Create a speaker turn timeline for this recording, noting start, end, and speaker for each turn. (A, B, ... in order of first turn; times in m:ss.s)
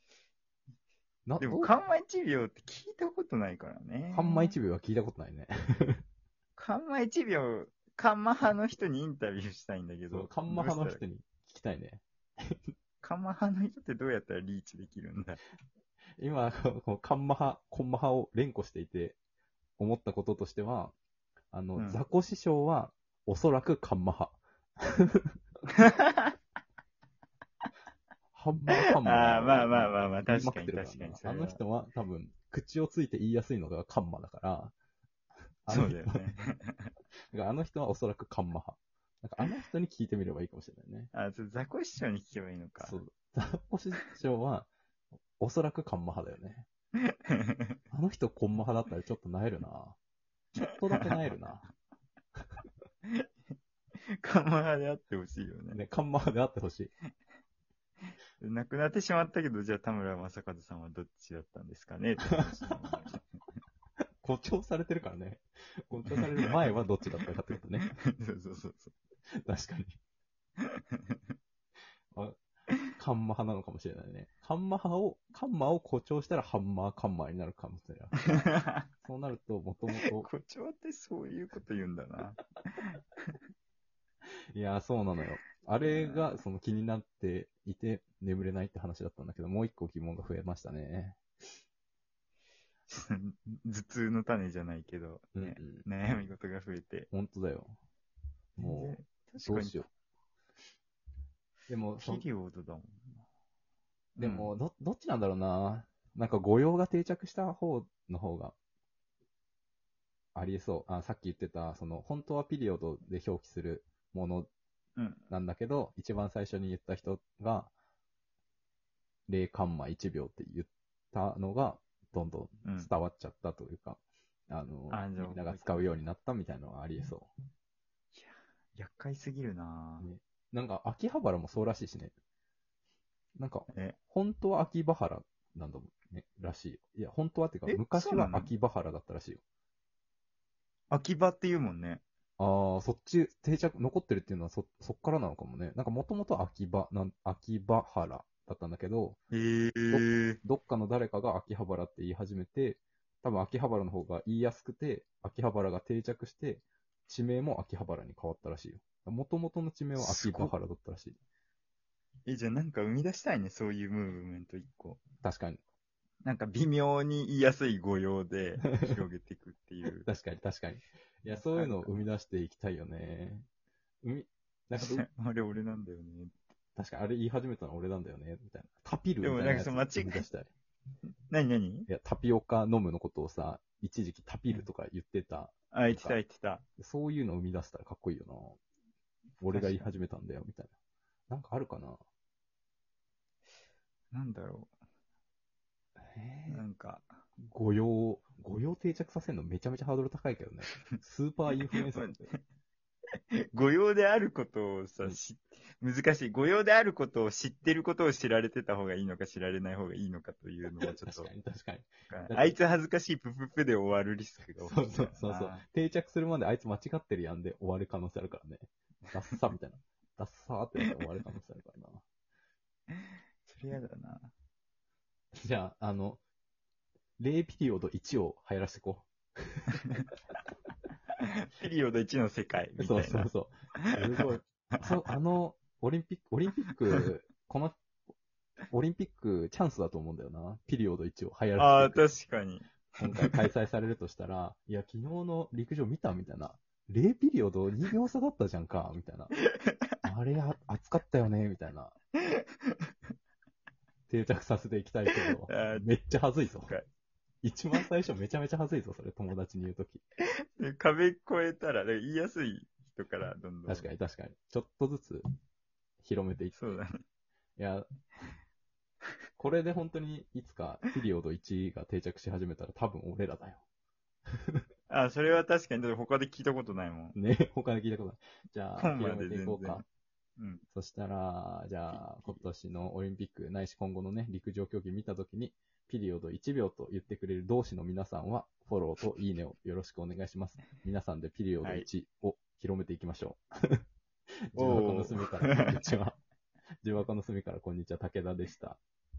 0:01.3-0:01.7 A
0:01.4-0:04.5 B
0:04.1-0:06.0 A
0:06.6-0:11.0 B
0:10.1-0:12.6 A
0:13.0-0:15.4 B
0:16.2-0:19.2 A
0:19.8-0:20.9 A
0:21.5-0:25.3 A
0:21.8-0:22.0 B
0:25.8-0:26.3 B
0:28.3-0:34.7 A
0:29.0-0:31.6 B
0:35.6-0:36.2 A
0:35.7-0:36.9 B
0:37.3-0:41.1 A
0:41.1-0:43.0 B
0:42.8-0:44.7 A
0:45.4-0:46.7 A
0:47.1-0:47.7 B
0:47.9-0:50.0 A
0:50.6-0:51.7 A
0:54.2-0:55.8 B
0:55.7-0:56.9 A
0:58.4-1:03.2 B
1:04.2-1:07.9 A
1:06.1-1:06.5 B
1:07.8-1:08.9 B
1:09.4-1:10.0 A
1:10.6-1:11.2 B
1:12.1-1:12.4 A
1:12.9-1:20.3 A
1:18.3-1:18.8 B
1:19.9-1:23.3 B
1:24.5-1:31.2 A
1:25.8-1:26.4 B
1:32.9-1:37.1 B
1:35.3-1:35.9 A
1:37.1-1:37.8 A
1:38.6-1:39.9 A
1:38.6-1:39.9 B
1:41.7-1:42.2 A
1:42.0-1:43.2 B
1:44.2-1:44.5 B
1:44.2-1:48.5 A
1:50.3-1:54.5 A
1:55.0-1:55.2 B
1:55.3-1:57.7 A
1:59.3-2:04.0 A
2:02.6-2:02.9 B
2:04.5-2:07.3 A
2:04.9-2:05.9 B
2:08.1-2:10.1 B
2:10.0-2:12.1 A
2:13.4-2:19.4 A
2:13.7-2:14.0 B
2:17.6-2:18.5 B
2:20.9-2:22.0 B
2:22.4-2:29.2 A
2:29.3-2:30.4 B
2:29.9-2:41.2 A
2:40.0-2:40.5 B
2:42.2-2:45.0 B
2:45.2-2:45.6 A
2:46.2-2:50.1 B
2:50.0-2:53.4 A
2:51.4-2:52.0 B
2:54.0-2:55.0 A
2:54.8-2:56.4 B
2:56.8-3:00.5 A
2:59.2-3:00.2 B
3:01.3-3:01.9 B
3:01.9-3:06.2 A
3:05.7-3:06.6 B
3:06.8-3:08.6 A
3:09.4-3:10.7 A
3:09.5-3:10.0 B
3:11.3-3:12.0 A
3:14.1-3:14.7 B
3:16.0-3:16.6 A
3:16.5-3:17.1 B
3:17.5-3:22.3 A
3:20.7-3:20.9 B
3:21.7-3:22.4 B
3:23.5-3:31.3 B
3:30.8-3:32.6 A
3:32.1-3:35.6 B
3:34.6-3:42.0 A
3:42.9-3:44.3 B
3:45.4-3:46.2 A
3:47.2-3:49.8 A
3:51.4-3:53.3 B
3:52.8-3:57.8 A
3:53.9-3:54.2 B
3:58.7-4:02.1 A
4:01.6-4:03.4 B
4:03.0-4:09.3 A
4:09.4-4:09.7 B
4:10.0-4:12.0 A
4:12.2-4:12.8 B
4:14.1-4:16.7 A
4:15.4-4:15.9 B
4:17.4-4:20.0 A
4:20.6-4:23.9 B
4:23.7-4:25.2 A
4:26.0-4:26.6 A
4:26.5-4:27.0 B
4:27.6-4:27.9 A
4:29.4-4:33.6 A
4:34.9-4:37.2 B
4:37.1-4:39.8 A
4:38.8-4:39.8 B
4:40.7-4:53.8 A
4:41.9-4:42.4 B
4:51.6-4:51.9 B
4:54.5-4:56.2 A
4:54.6-4:55.8 B
4:56.8-4:58.8 A